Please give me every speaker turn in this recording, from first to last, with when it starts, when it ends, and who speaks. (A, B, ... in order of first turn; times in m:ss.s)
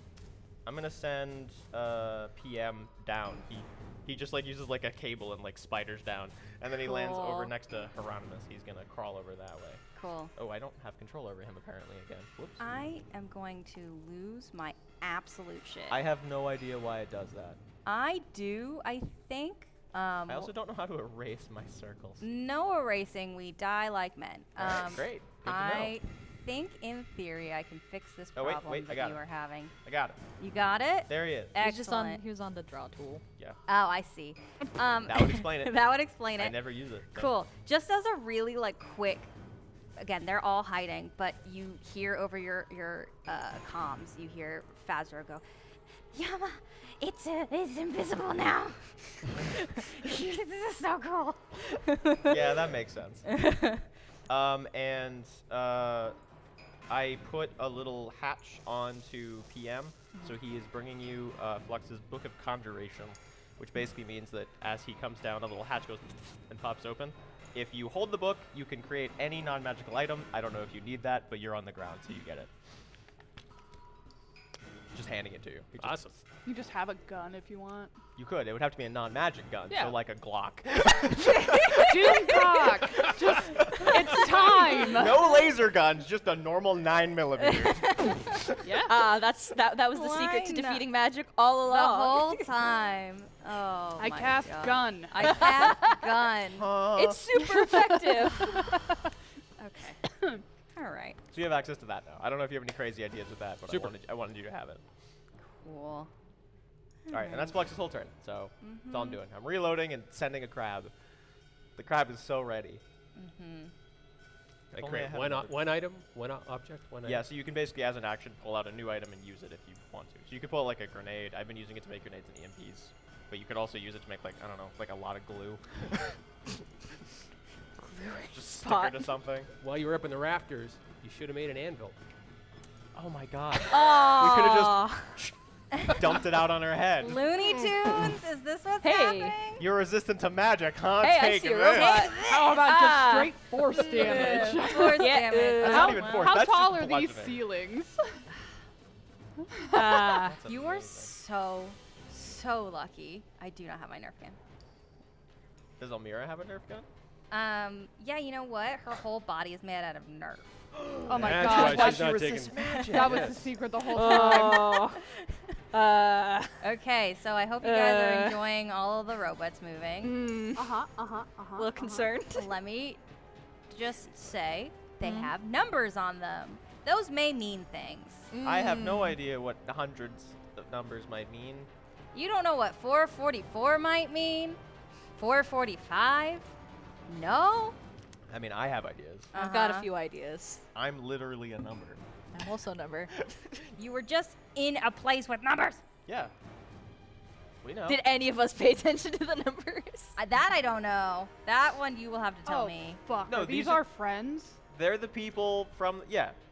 0:00.6-0:09.8 A
0:06.8-0:07.5 B
0:10.0-0:10.3 B
0:10.4-0:12.7 A
0:12.6-0:16.0 B
0:15.9-0:17.6 A
0:17.8-0:20.5 B
0:20.3-0:22.2 A
0:22.2-0:29.7 B
0:24.6-0:26.0 A
0:28.4-0:29.2 A
0:29.8-0:30.2 A
0:30.4-0:32.2 B
0:31.1-0:31.6 A
0:31.6-0:33.2 C
0:33.7-0:36.6 B
0:35.0-0:37.3 A
0:37.1-0:39.3 B
0:40.0-0:45.4 B
0:46.1-0:52.4 B
0:52.2-0:53.3 A
0:53.3-0:53.8 B
0:54.3-0:56.2 A
0:56.9-1:12.5 A
1:14.9-1:16.2 A
1:15.8-1:16.1 D
1:16.4-1:17.9 E
1:18.2-1:28.5 A
1:19.7-1:20.0 E
1:21.7-1:25.3 E
1:27.6-1:28.2 B
1:28.6-1:28.9 E
1:28.8-1:32.5 C
1:29.9-1:30.9 B
1:31.7-1:36.7 B
1:34.0-1:35.5 E
1:35.3-1:36.2 C
1:36.5-1:37.2 A
1:36.9-1:38.8 C
1:39.6-1:40.1 B
1:40.1-1:40.4 E
1:40.7-1:41.2 B
1:41.3-1:44.8 A
1:43.7-1:43.9 D
1:45.6-1:46.1 B
1:47.1-1:47.5 B
1:47.1-1:50.9 A
1:48.6-1:49.2 B
1:51.8-1:52.8 A
1:53.2-1:53.7 B
1:54.7-1:57.2 D
1:54.7-1:55.6 A
1:57.0-2:06.2 A
2:07.8-2:09.0 C
2:08.3-2:09.5 A
2:09.6-2:12.0 D
2:12.9-2:15.4 A
2:13.7-2:15.1 C
2:15.8-2:16.0 B
2:15.9-2:17.3 A
2:17.0-2:19.6 B
2:18.8-2:19.4 C
2:19.6-2:22.1 A
2:21.0-2:26.2 C
2:21.7-2:22.7 B
2:22.1-2:28.0 E
2:23.9-2:26.4 B
2:25.6-2:27.4 A
2:29.5-2:30.2 E
2:29.6-2:30.4 C
2:30.2-2:31.1 A
2:30.4-2:34.4 B
2:35.8-2:36.9 A
2:37.3-2:40.5 B
2:40.7-2:43.5 A
2:41.1-2:42.3 E
2:41.1-2:43.5 D
2:42.8-2:44.8 E
2:43.9-2:45.0 C
2:44.1-2:44.4 B
2:45.7-2:46.6 C
2:46.6-2:50.2 B
2:47.6-2:48.4 C
2:50.0-2:50.8 C
2:50.6-2:52.1 E
2:51.6-2:52.5 C
2:52.3-2:53.0 B
2:53.7-2:58.3 B
2:55.0-2:55.3 C
2:58.3-2:59.2 C
2:58.4-3:01.7 A
3:02.1-3:04.6 B
3:05.2-3:06.5 B
3:07.1-3:07.8 B
3:08.3-3:09.3 A
3:09.3-3:09.9 B
3:09.3-3:10.6 C
3:10.7-3:12.0 A
3:12.3-3:13.1 C
3:13.8-3:15.8 B
3:16.1-3:16.3 A
3:17.6-3:18.0 A
3:17.8-3:20.2 C
3:20.2-3:23.0 B
3:22.4-3:24.6 E
3:23.3-3:23.8 A
3:24.7-3:26.4 A